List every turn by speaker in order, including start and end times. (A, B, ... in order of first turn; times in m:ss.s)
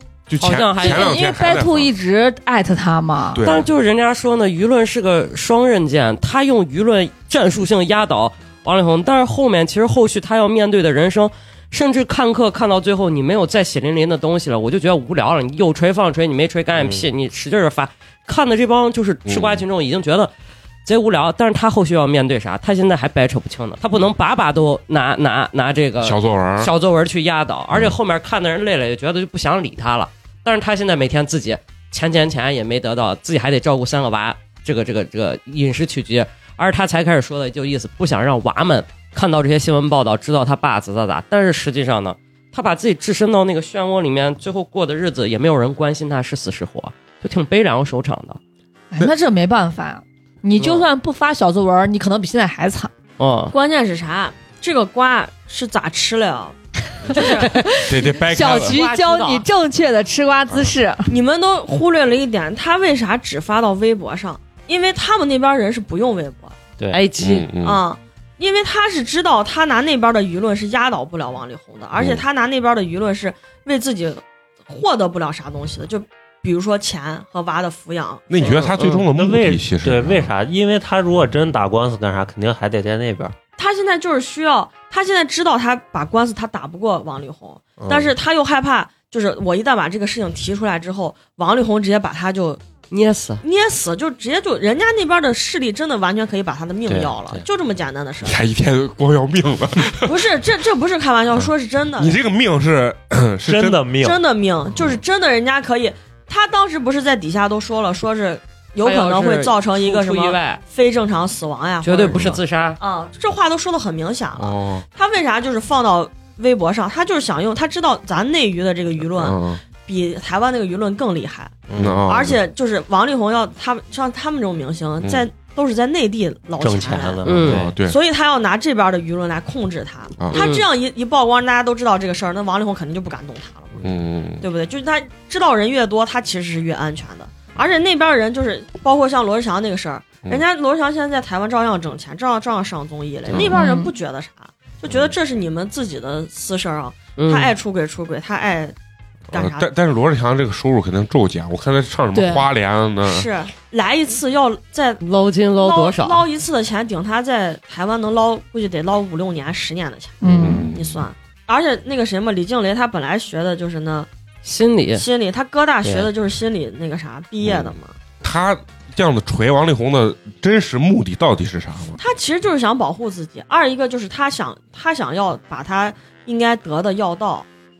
0:00.3-0:01.9 A
0:00.4-0:01.1 B
0:00.8-0:03.4 C
0:03.3-0:03.7 A
0:03.4-0:20.3 B
0:16.8-0:17.0 D
0:19.2-0:19.6 A
0:20.8-0:48.4 B
0:26.0-0:26.7 A
0:48.9-0:52.9 C
0:53.2-0:53.5 B
0:53.5-0:56.5 E
0:57.1-0:57.5 E
0:57.1-1:01.1 C
0:57.9-0:58.8 A
0:58.4-0:59.4 B
1:01.1-1:06.6 E
1:06.9-1:07.5 B
1:07.2-1:07.8 A
1:07.6-1:18.5 E
1:12.0-1:12.2 A
1:18.3-1:20.3 A
1:18.4-1:23.4 D
1:23.6-1:32.6 E
1:27.8-1:28.1 D
1:32.9-1:33.4 B
1:33.4-1:38.4 E
1:36.9-1:37.4 D
1:38.2-1:40.2 A
1:40.0-1:42.2 E
1:42.0-1:43.9 A
1:43.4-1:44.2 D
1:44.0-2:07.2 E
1:48.8-1:50.6 B
1:51.8-1:52.8 B
1:54.4-1:54.8 A
1:59.1-1:59.6 A
2:01.7-2:02.1 D
2:01.8-2:02.4 A
2:06.6-2:07.8 D
2:07.2-2:07.6 B
2:07.4-2:08.0 A
2:07.8-2:13.8 E
2:10.3-2:10.6 B
2:13.8-2:14.4 A
2:14.4-2:28.7 E
2:23.5-2:23.9 C
2:27.2-2:27.5 B
2:29.3-2:33.3 A
2:29.3-2:29.7 E
2:32.1-2:32.5 C
2:33.0-2:35.0 E
2:35.0-2:36.2 B
2:35.6-2:44.1 E
2:40.2-2:40.7 C
2:40.4-2:41.0 A
2:44.4-2:45.0 B
2:44.9-2:47.9 E
2:45.8-2:46.1 D
2:48.2-2:52.0 A
2:52.0-2:57.4 E